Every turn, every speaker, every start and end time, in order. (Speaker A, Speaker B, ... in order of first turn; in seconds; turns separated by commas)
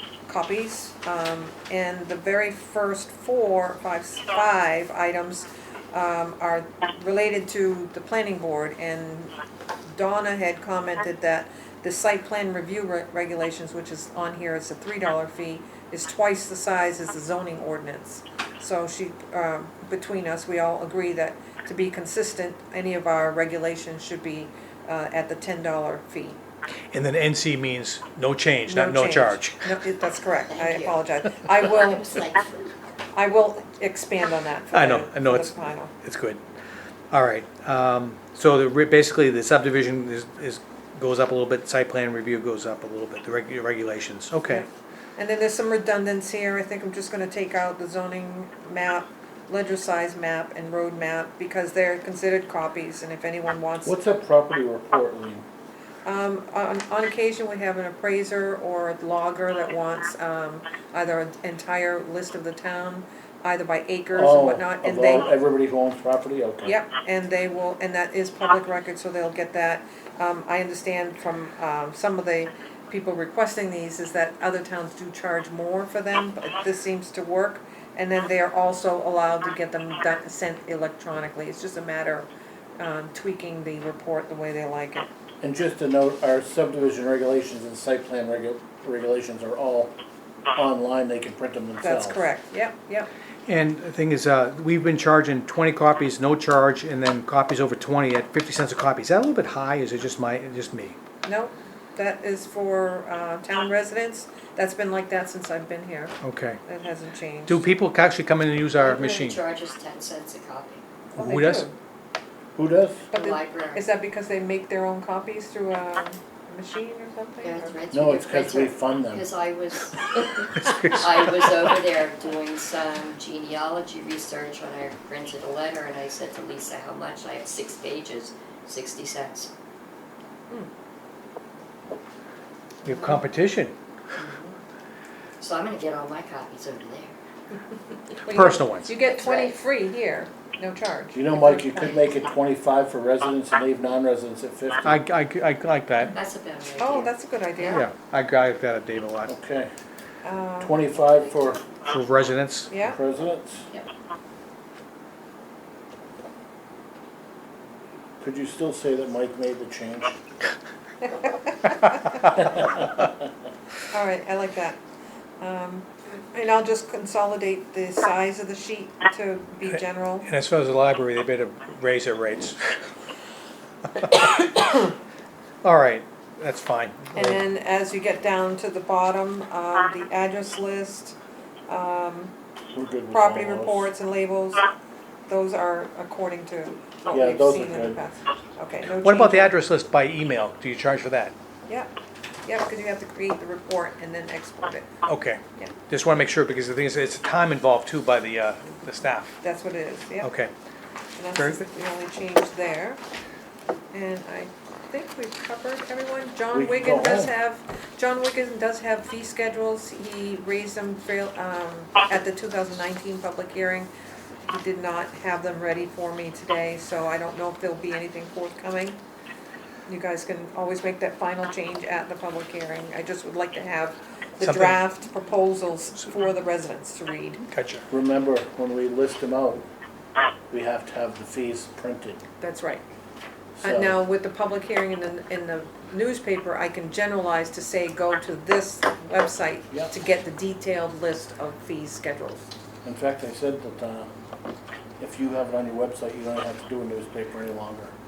Speaker A: 0.3-9.3, Speaker A: 9.9-26.4, Speaker B: 26.9-29.8, Speaker A: 28.7-32.2, Speaker C: 30.5-32.7, Speaker A: 33.1-35.9, Speaker B: 34.7-36.4, Speaker B: 37.1-44.6, Speaker A: 44.5-54.0, Speaker D: 53.8-55.4, Speaker A: 56.0-65.3, Speaker D: 64.1-66.8, Speaker A: 66.6-85.1, Speaker D: 85.4-89.9, Speaker D: 90.5-92.2, Speaker A: 91.8-93.1, Speaker B: 93.5-101.0, Speaker A: 101.2-107.7, Speaker B: 106.2-106.6, Speaker B: 107.5-109.4, Speaker C: 108.8-110.8, Speaker A: 111.1-111.7, Speaker B: 111.2-111.7, Speaker D: 112.5-113.1, Speaker C: 113.1-113.9, Speaker A: 113.1-117.8, Speaker C: 117.4-129.5, Speaker D: 117.9-119.3, Speaker B: 120.5-121.1, Speaker B: 132.8-133.7, Speaker C: 134.2-134.6, Speaker C: 135.4-137.1, Speaker A: 138.2-142.0, Speaker B: 138.2-138.9, Speaker C: 139.1-139.5, Speaker D: 141.1-145.0, Speaker B: 144.8-146.2, Speaker C: 146.1-147.8, Speaker A: 146.8-147.8, Speaker B: 147.7-149.3, Speaker D: 149.3-149.7, Speaker A: 150.2-150.8, Speaker D: 150.6-151.6, Speaker C: 151.2-151.6, Speaker B: 151.8-152.8, Speaker A: 152.7-152.9, Speaker D: 152.8-153.7, Speaker D: 158.2-160.2, Speaker A: 161.0-162.7, Speaker D: 162.5-162.8, Speaker A: 163.9-164.8, Speaker A: 165.4-170.3, Speaker B: 169.7-172.9, Speaker B: 173.9-174.6, Speaker B: 175.6-177.4, Speaker A: 177.1-182.3, Speaker D: 182.7-183.9, Speaker A: 183.1-184.6, Speaker A: 185.3-189.5, Speaker D: 187.1-188.0, Speaker B: 189.0-191.3, Speaker A: 191.7-191.9, Speaker A: 192.4-194.9, Speaker B: 195.1-199.3, Speaker A: 199.4-200.3, Speaker B: 200.2-200.5, Speaker A: 201.2-203.0, Speaker B: 201.3-201.7, Speaker A: 203.9-213.9, Speaker D: 206.5-207.3, Speaker A: 214.4-219.0, Speaker A: 219.8-227.4, Speaker B: 224.4-224.9, Speaker B: 227.5-227.8, Speaker D: 227.9-229.7, Speaker D: 230.5-232.2, Speaker A: 232.4-232.8, Speaker D: 233.6-234.0, Speaker A: 233.6-242.4, Speaker D: 242.8-244.1, Speaker D: 245.0-247.9